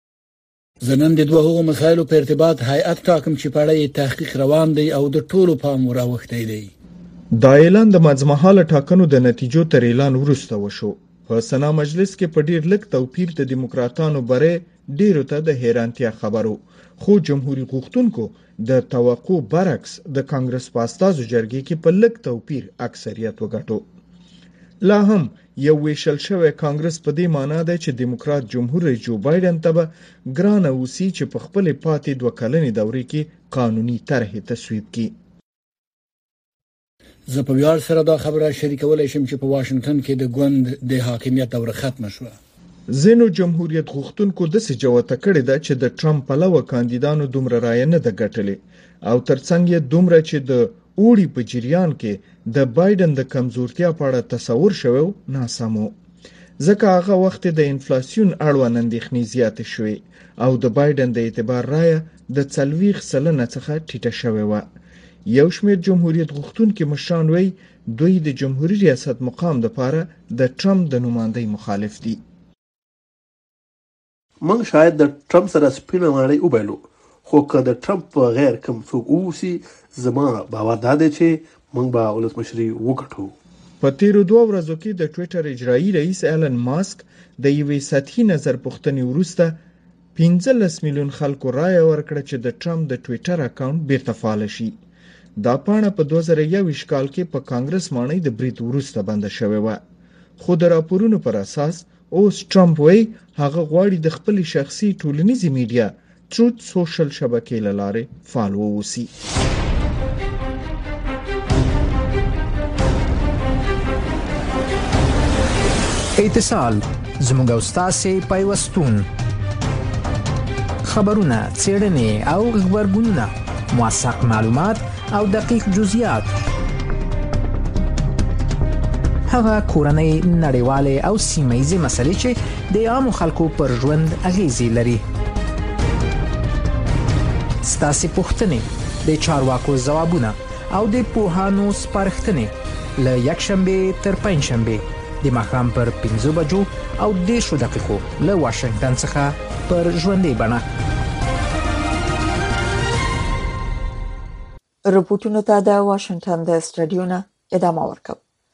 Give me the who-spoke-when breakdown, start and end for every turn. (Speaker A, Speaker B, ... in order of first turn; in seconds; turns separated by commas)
Speaker A: 0.8-6.7, Speaker B: 7.3-23.9, Speaker B: 24.8-35.1, Speaker A: 37.3-42.4, Speaker B: 42.9-55.9, Speaker B: 56.6-64.7, Speaker B: 65.3-72.2, Speaker C: 74.4-83.3, Speaker B: 83.8-89.6, Speaker B: 90.2-94.8, Speaker B: 95.4-99.8, Speaker B: 100.4-109.1, Speaker D: 116.2-119.1, Speaker D: 120.8-126.3, Speaker D: 129.3-135.0, Speaker D: 137.6-150.6, Speaker E: 154.9-158.2